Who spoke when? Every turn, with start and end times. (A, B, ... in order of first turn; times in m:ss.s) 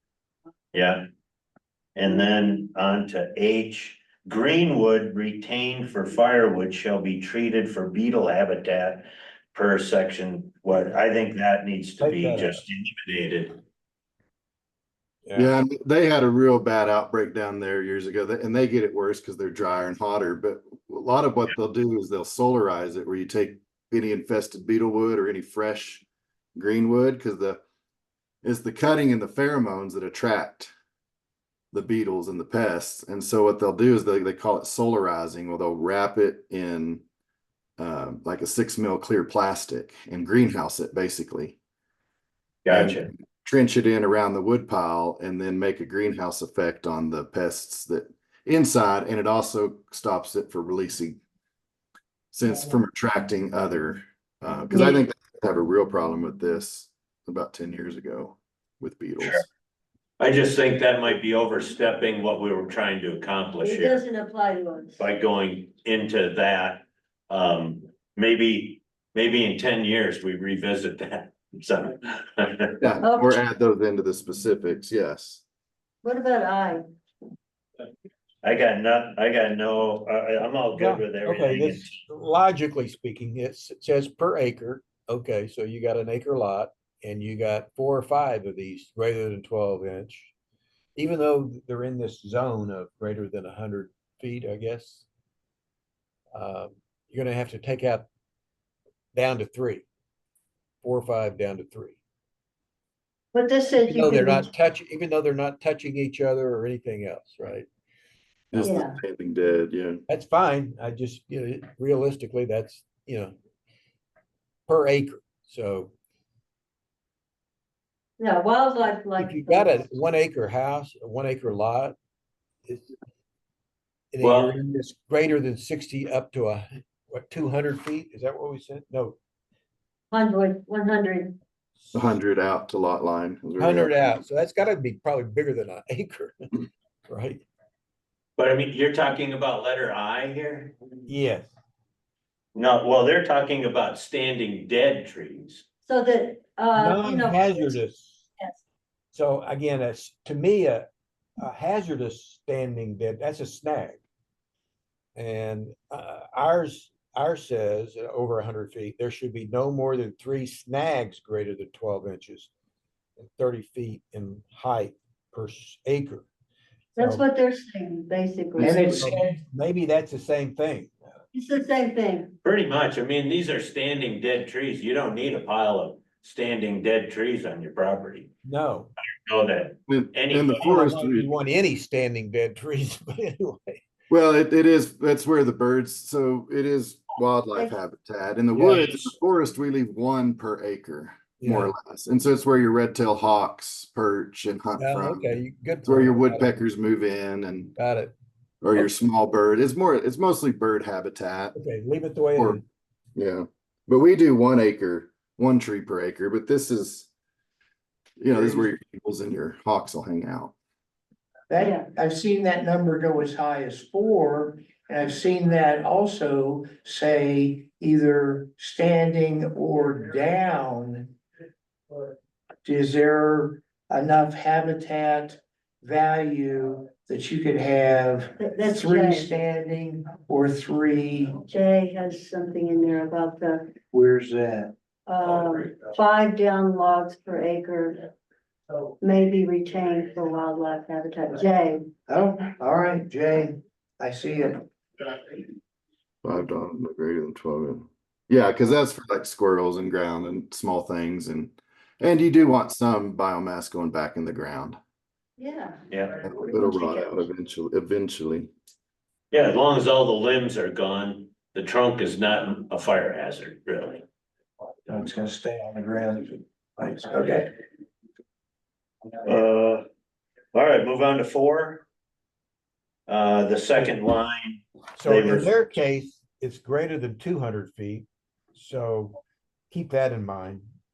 0:00.7-0:01.0 A
0:02.0-0:13.6 A
0:12.0-0:12.6 B
0:15.2-0:15.5 B
0:15.3-0:27.6 C
0:28.4-0:30.7 C
0:31.7-0:37.0 C
0:37.8-0:41.6 C
0:42.6-0:43.1 A
0:42.7-0:51.2 C
0:52.3-0:59.4 C
0:54.7-0:55.0 D
1:00.2-1:04.0 A
1:03.6-1:05.1 D
1:05.0-1:12.8 A
1:12.8-1:15.4 C
1:13.0-1:13.4 D
1:16.0-1:16.8 D
1:18.4-1:22.0 A
1:20.8-1:30.3 B
1:31.0-1:35.1 B
1:36.3-1:38.1 B
1:39.1-1:39.9 B
1:40.8-1:42.0 B
1:43.3-1:44.5 D
1:43.8-1:47.7 B
1:48.5-1:50.0 C
1:48.6-1:49.0 D
1:50.1-1:53.3 B
1:54.7-1:55.9 B
1:58.2-1:59.9 D
1:59.2-2:02.0 B
2:02.7-2:02.9 B
2:04.1-2:09.2 B
2:04.2-2:04.6 A
2:10.1-2:11.4 D
2:11.8-2:12.2 B
2:11.9-2:14.2 C
2:13.6-2:16.5 B
2:17.1-2:17.4 B
2:18.4-2:20.8 A
2:21.1-2:21.5 B
2:22.5-2:25.6 A
2:25.8-2:27.8 D
2:26.8-2:28.3 B
2:29.1-2:30.9 B
2:31.4-2:34.0 B
2:35.2-2:42.5 B
2:43.2-2:46.3 B
2:46.9-2:49.0 D
2:47.0-2:47.2 B
2:48.6-2:51.0 B
2:48.6-2:49.4 E
2:51.3-2:52.4 D
2:52.4-2:58.3 A
2:58.4-2:58.9 B
2:59.2-3:00.8 A
2:59.9-3:01.3 C
3:00.6-3:03.8 B
3:04.1-3:15.3 C
3:08.5-3:09.1 B
3:11.4-3:11.7 B
3:14.8-3:16.5 B
3:15.8-3:17.8 C
3:17.8-3:18.1 B
3:18.6-3:21.6 C
3:21.5-3:22.6 B
3:22.4-3:22.6 C
3:23.2-3:27.1 C
3:28.2-3:30.5 C
3:28.3-3:28.6 E
3:31.5-3:41.1 E
3:31.6-3:31.9 D
3:42.6-3:51.4 E
3:48.4-3:49.3 D
3:51.4-3:53.7 D
3:53.9-3:54.7 E
3:55.1-3:58.1 D
3:55.2-3:55.7 A
3:59.0-4:01.8 D
4:02.1-4:05.4 E
4:06.2-4:14.8 C
4:15.4-4:15.8 D
4:15.9-4:16.2 A
4:16.2-4:18.5 C
4:16.4-4:17.2 D
4:19.3-4:24.0 A
4:24.9-4:27.5 E
4:29.2-4:29.8 A
4:30.5-4:31.8 A
4:33.1-4:35.5 A
4:35.0-4:39.2 B
4:39.7-4:40.6 B